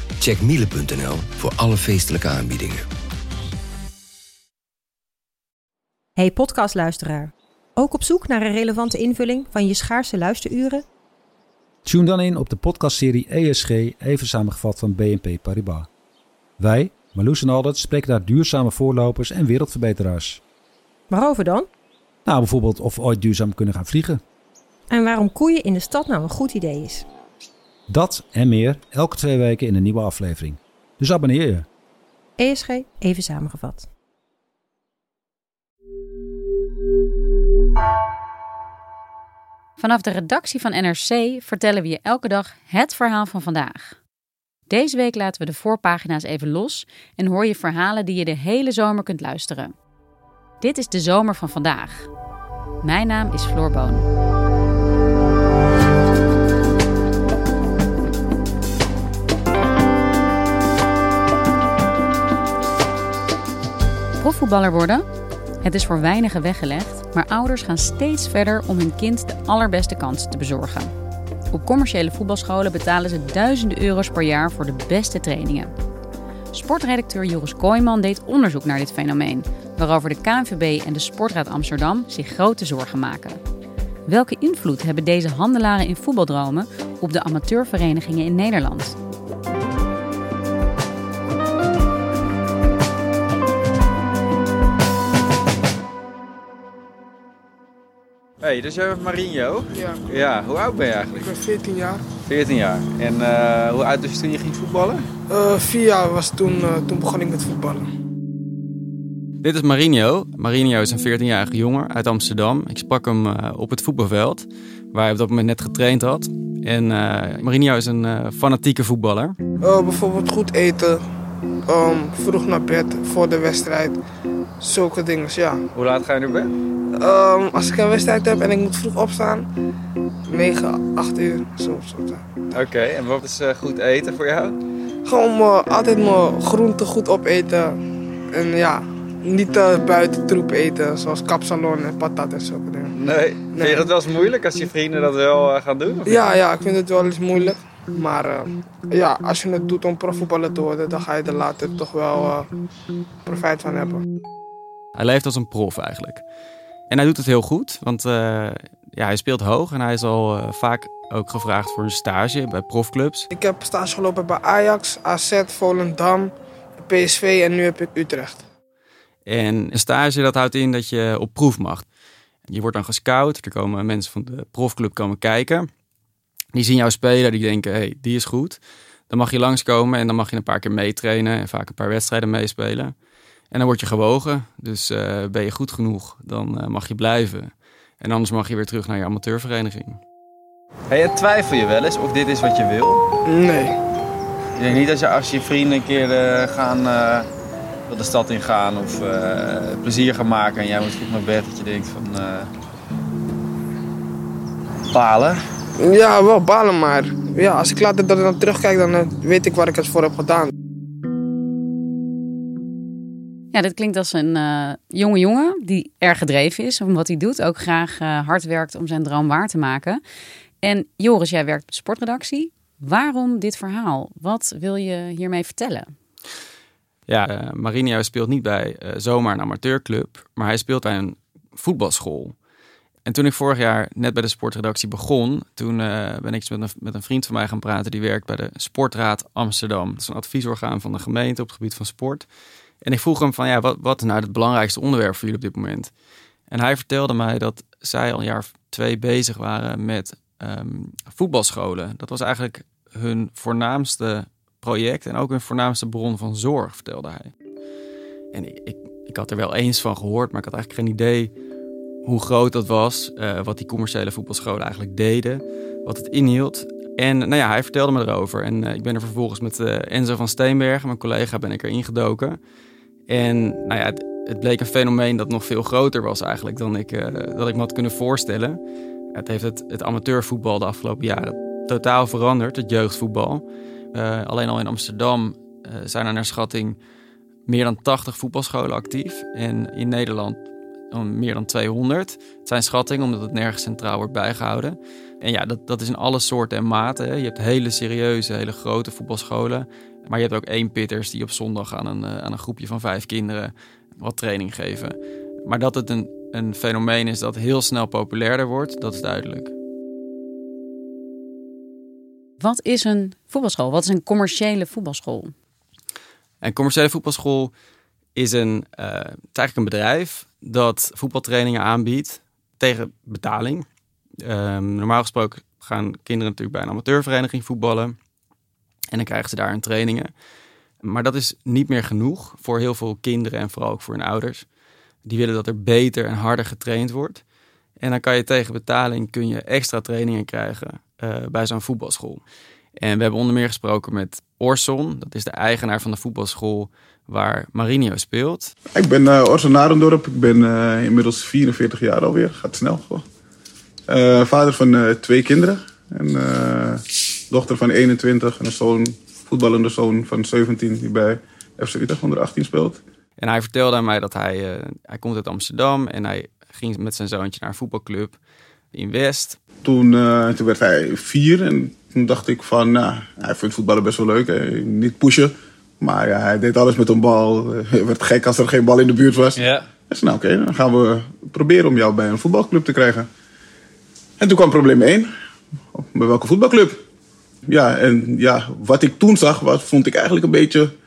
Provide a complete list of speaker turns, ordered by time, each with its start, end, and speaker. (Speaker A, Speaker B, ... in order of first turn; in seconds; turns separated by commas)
Speaker A: 0.2-2.8, Speaker B: 6.2-10.8, Speaker C: 11.8-15.9, Speaker C: 16.6-20.4, Speaker B: 21.1-21.7, Speaker C: 22.2-24.2, Speaker B: 24.9-27.0, Speaker C: 27.9-31.7, Speaker B: 32.4-33.9, Speaker D: 39.8-44.0, Speaker D: 44.7-49.7, Speaker D: 50.6-52.1, Speaker D: 52.8-54.0, Speaker D: 64.2-65.0, Speaker D: 65.6-70.9, Speaker D: 71.5-75.7, Speaker D: 76.5-83.4, Speaker D: 84.1-89.0, Speaker E: 98.4-101.3, Speaker F: 99.7-100.0, Speaker F: 101.2-102.0, Speaker E: 102.2-105.0, Speaker F: 105.3-107.9, Speaker E: 109.4-119.4, Speaker F: 119.6-121.0, Speaker F: 121.7-124.0, Speaker F: 124.6-125.6, Speaker E: 125.7-126.5, Speaker F: 127.0-129.4, Speaker F: 130.3-132.3, Speaker E: 132.5-134.6, Speaker F: 135.0-137.8, Speaker F: 138.3-142.9, Speaker E: 142.9-146.3, Speaker F: 143.5-143.9, Speaker F: 146.1-152.5, Speaker F: 153.2-154.0, Speaker E: 154.9-156.2, Speaker E: 156.9-163.3, Speaker F: 163.3-166.3, Speaker F: 166.8-168.4, Speaker E: 169.2-171.8, Speaker E: 172.5-175.7, Speaker E: 176.5-182.9, Speaker E: 183.5-190.0, Speaker E: 190.9-193.0, Speaker F: 193.3-193.8, Speaker E: 194.6-197.3, Speaker E: 197.9-202.5, Speaker E: 204.9-205.4, Speaker F: 205.8-210.5, Speaker D: 213.5-220.0, Speaker D: 220.6-225.9, Speaker E: 227.1-232.3, Speaker E: 233.1-242.2, Speaker E: 242.8-245.9, Speaker E: 246.5-257.3, Speaker E: 258.3-261.3, Speaker E: 262.0-272.4, Speaker E: 273.1-278.6, Speaker E: 279.1-286.8, Speaker E: 287.5-309.5, Speaker D: 312.4-315.3, Speaker E: 316.4-317.5, Speaker E: 318.1-323.6, Speaker E: 324.2-328.0, Speaker E: 328.9-330.1, Speaker E: 330.8-334.4, Speaker E: 335.0-337.2, Speaker E: 337.8-342.2, Speaker E: 342.8-348.5, Speaker G: 348.7-353.0, Speaker G: 353.9-362.8, Speaker E: 363.2-368.2, Speaker E: 368.7-369.4, Speaker G: 369.6-383.1, Speaker E: 379.4-379.6, Speaker G: 384.2-385.1, Speaker G: 385.7-386.8, Speaker G: 387.5-390.7